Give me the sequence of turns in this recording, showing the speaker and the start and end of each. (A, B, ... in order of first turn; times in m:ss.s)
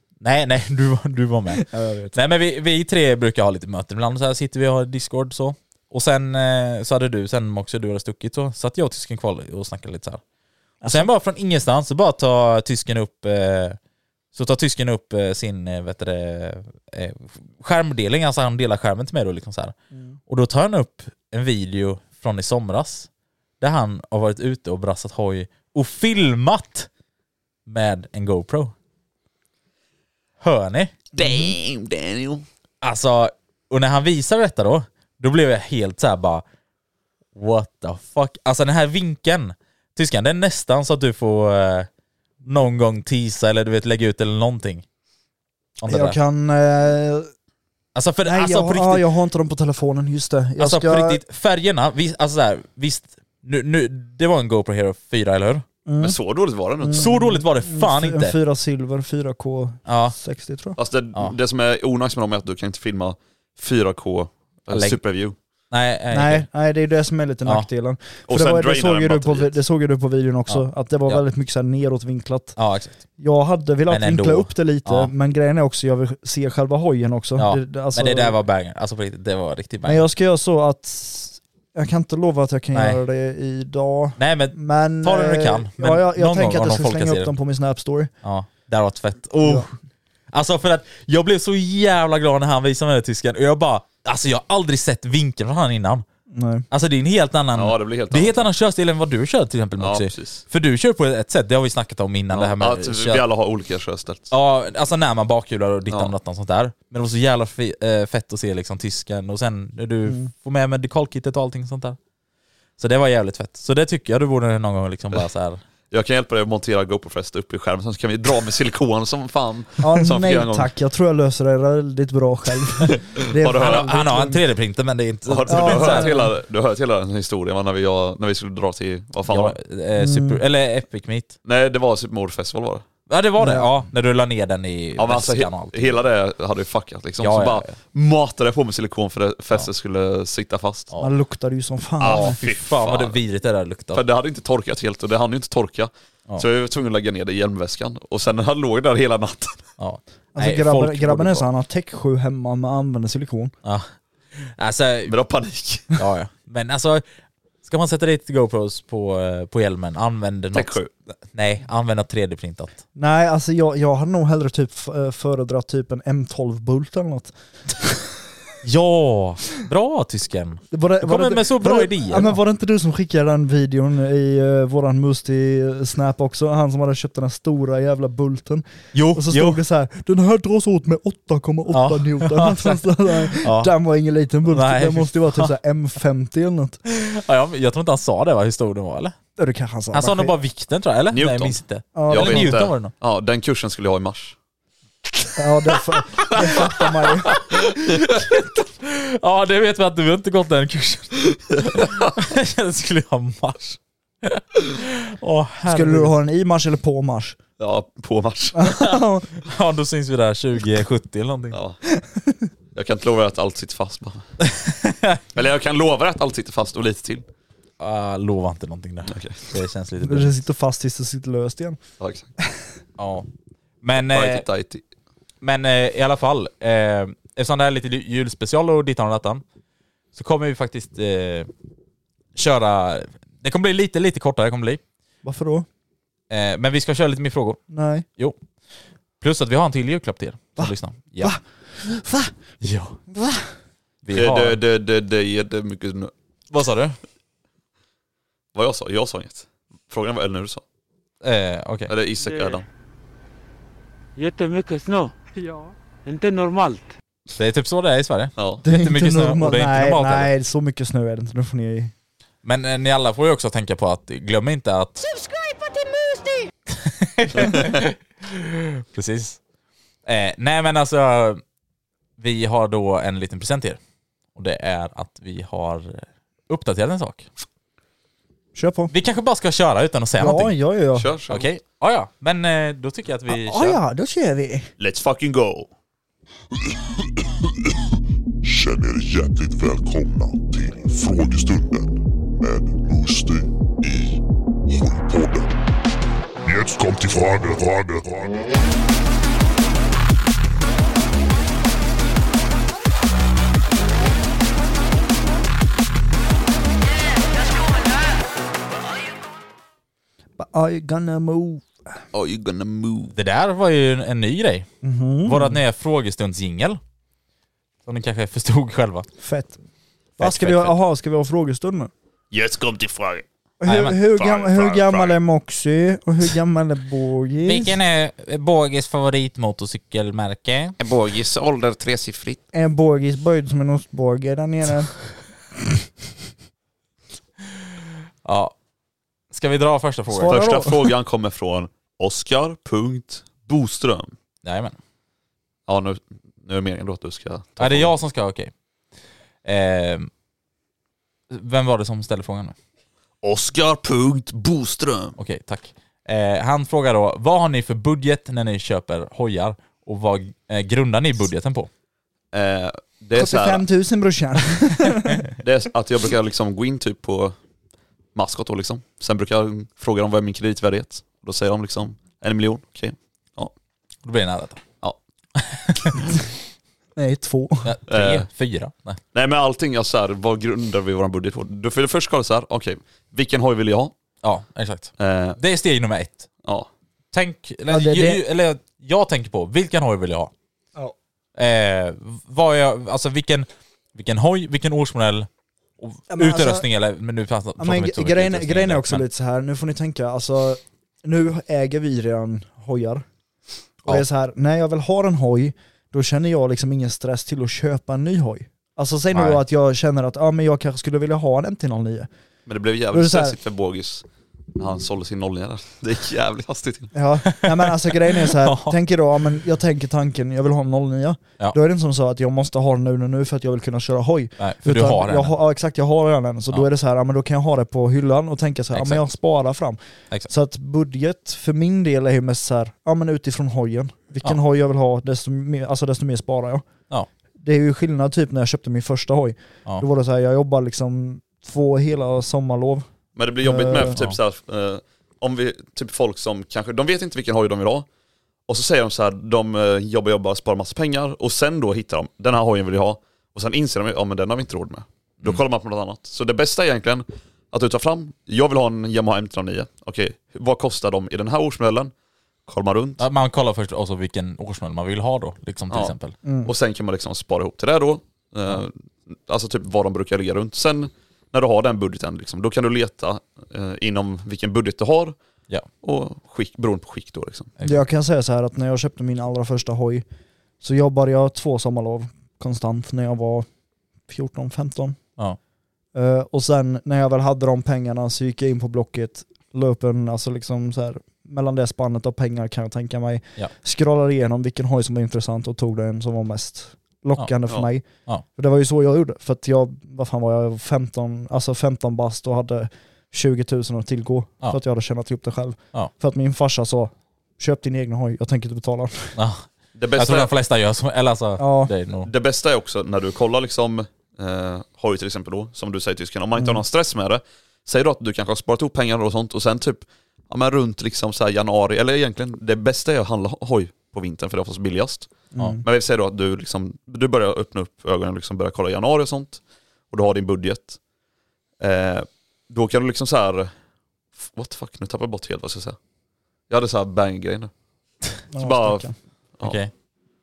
0:00.2-0:10.2 A
0:01.5-0:02.2 B
0:10.8-0:11.1 B
0:10.8-0:13.8 A
0:14.3-0:19.7 A
0:20.3-0:23.1 A
0:23.6-0:26.9 A
0:27.6-0:28.7 A
0:30.4-0:31.0 A
0:31.2-0:32.4 C
0:31.2-0:31.5 B
0:32.8-0:36.4 A
0:37.3-0:41.9 A
0:42.4-0:44.8 A
0:45.8-0:46.2 A
0:45.9-0:47.3 B
0:47.9-0:49.0 A
0:48.2-0:51.2 B
0:50.6-0:55.6 A
0:55.8-0:56.2 B
0:56.0-0:57.1 C
0:56.8-1:00.8 B
0:56.9-0:58.4 A
0:59.8-1:00.1 A
1:00.8-1:05.3 C
1:04.7-1:05.0 A
1:05.7-1:06.5 A
1:06.1-1:12.6 B
1:08.3-1:09.6 C
1:10.5-1:11.2 A
1:12.6-1:13.0 A
1:13.2-1:18.4 B
1:13.9-1:15.1 A
1:17.4-1:20.0 A
1:19.8-1:28.1 B
1:22.7-1:23.0 A
1:24.2-1:27.3 A
1:28.2-1:29.7 A
1:29.4-1:29.7 B
1:30.3-1:36.0 A
1:36.3-1:36.6 B
1:36.7-1:43.2 A
1:37.5-1:38.4 C
1:39.8-1:40.4 C
1:42.3-1:44.3 C
1:44.3-1:52.0 A
1:50.0-1:50.3 B
1:52.8-1:55.6 A
1:55.9-2:00.7 C
1:59.8-2:04.4 B
2:03.4-2:03.9 C
2:03.6-2:06.1 A
2:05.3-2:09.5 C
2:05.5-2:06.3 B
2:09.3-2:11.4 A
2:10.0-2:10.4 B
2:11.4-2:12.8 C
2:13.1-2:16.0 A
2:13.4-2:13.7 B
2:15.0-2:20.9 C
2:17.2-2:17.7 A
2:21.0-2:22.4 B
2:22.0-2:23.2 C
2:22.0-2:24.0 A
2:23.9-2:29.6 C
2:29.8-2:31.5 A
2:30.3-2:33.5 B
2:33.6-2:35.1 A
2:35.1-2:35.9 C
2:35.9-2:37.0 A
2:37.6-2:40.8 A
2:40.5-2:40.9 C
2:41.3-2:42.8 A
2:42.9-2:47.8 B
2:48.6-2:52.4 A
2:50.7-3:06.8 B
2:58.9-2:59.6 A
3:01.7-3:03.7 A
3:04.5-3:05.5 A
3:06.9-3:09.1 A
3:09.4-3:10.3 B
3:09.9-3:12.9 A
3:11.1-3:14.3 C
3:12.0-3:12.6 B
3:15.4-3:17.4 B
3:16.2-3:26.1 A
3:21.8-3:22.0 C
3:25.6-3:27.4 B
3:27.6-3:28.7 C
3:28.5-3:29.3 B
3:28.8-3:31.6 A
3:31.5-3:31.8 C
3:32.0-3:32.4 B
3:32.7-3:34.3 C
3:34.5-3:35.2 A
3:35.3-3:37.2 C
3:37.8-3:40.4 A
3:39.1-3:39.5 C
3:40.0-3:41.8 B
3:42.0-3:42.3 C
3:43.0-3:43.3 A
3:43.8-3:44.4 A
3:44.1-3:44.8 C
3:45.4-3:49.4 A
3:50.1-3:51.5 A
3:52.3-3:54.8 A
3:55.2-3:55.6 B
3:56.3-3:57.6 A
3:57.7-3:58.0 B
3:59.2-4:01.4 A
4:00.6-4:02.3 B
4:02.6-4:03.0 A
4:03.1-4:03.5 B
4:04.0-4:04.6 A
4:04.1-4:06.1 C
4:06.5-4:07.0 A
4:08.5-4:10.6 C
4:11.2-4:11.9 A
4:11.9-4:12.6 C
4:12.2-4:12.6 D
4:14.2-4:16.9 D
4:17.4-4:20.3 A
4:18.4-4:18.6 C
4:18.6-4:21.9 B
4:22.4-4:25.2 A
4:26.7-4:29.4 A
4:30.0-4:31.4 A
4:32.2-4:33.8 A
4:34.3-4:37.3 A
4:38.5-4:38.9 B
4:38.9-4:40.5 A
4:40.2-4:41.1 B
4:40.9-4:41.4 C
4:41.3-4:43.8 A
4:43.3-4:44.7 B
4:44.8-4:45.7 C
4:46.6-4:47.2 E
4:48.4-4:55.6 E
4:56.4-4:58.5 E
5:10.4-5:11.8 B
5:12.1-5:13.1 C
5:13.1-5:14.7 A
5:14.8-5:15.6 B
5:15.2-5:16.8 A
5:17.8-5:19.1 A
5:19.2-5:19.6 B
5:20.2-5:20.7 A
5:20.2-5:21.9 B
5:22.3-5:23.2 C
5:23.6-5:27.7 B
5:23.6-5:24.0 A
5:24.1-5:25.2 C
5:27.4-5:30.8 A
5:30.8-5:32.4 C
5:32.5-5:35.1 B
5:38.2-5:38.5 A
5:39.3-5:40.4 A
5:40.1-5:40.9 B
5:40.3-5:44.1 C
5:44.4-5:44.8 A
5:45.7-5:47.9 C
5:47.6-5:48.5 A
5:49.4-5:50.1 A
5:51.3-5:52.6 A
5:53.2-5:55.2 C
5:55.2-6:01.7 A
6:02.3-6:03.6 C
6:03.2-6:05.3 B
6:05.4-6:07.3 C
6:08.1-6:13.5 C
6:14.0-6:14.6 A
6:15.4-6:16.1 A
6:17.0-6:17.7 B
6:17.6-6:19.0 A
6:17.9-6:18.3 C
6:19.1-6:23.9 C
6:24.2-6:26.3 A
6:25.0-6:25.4 C
6:27.1-6:30.3 A
6:27.7-6:28.2 B
6:31.4-6:39.0 A
6:36.1-6:36.6 B
6:37.6-6:43.0 B
6:43.8-6:52.1 B
6:49.1-6:49.4 A
6:52.5-6:54.0 C
6:52.9-6:53.4 B
6:54.6-6:56.9 C
6:56.9-7:09.8 B
6:57.2-6:58.8 A
7:04.4-7:05.4 A
7:08.7-7:09.0 A
7:10.3-7:16.7 B
7:17.4-7:22.9 B
7:23.2-7:27.8 C
7:23.4-7:24.0 B
7:28.5-7:41.9 C
7:42.5-7:43.0 C
7:43.0-7:46.2 A
7:45.7-7:55.2 C
7:46.2-7:46.5 B
7:55.8-7:57.5 C
7:57.6-8:00.0 B
8:00.6-8:03.5 B
8:04.1-8:05.0 B
8:05.9-8:29.1 B
8:29.2-8:32.1 A
8:29.7-8:30.3 C
8:31.4-8:31.7 B
8:32.0-8:50.8 C
8:45.3-8:45.6 B
8:51.6-8:53.5 C
8:54.2-8:55.8 C
8:56.5-8:57.5 C
8:58.3-8:58.9 B
8:58.4-8:58.9 C
8:59.4-8:59.7 A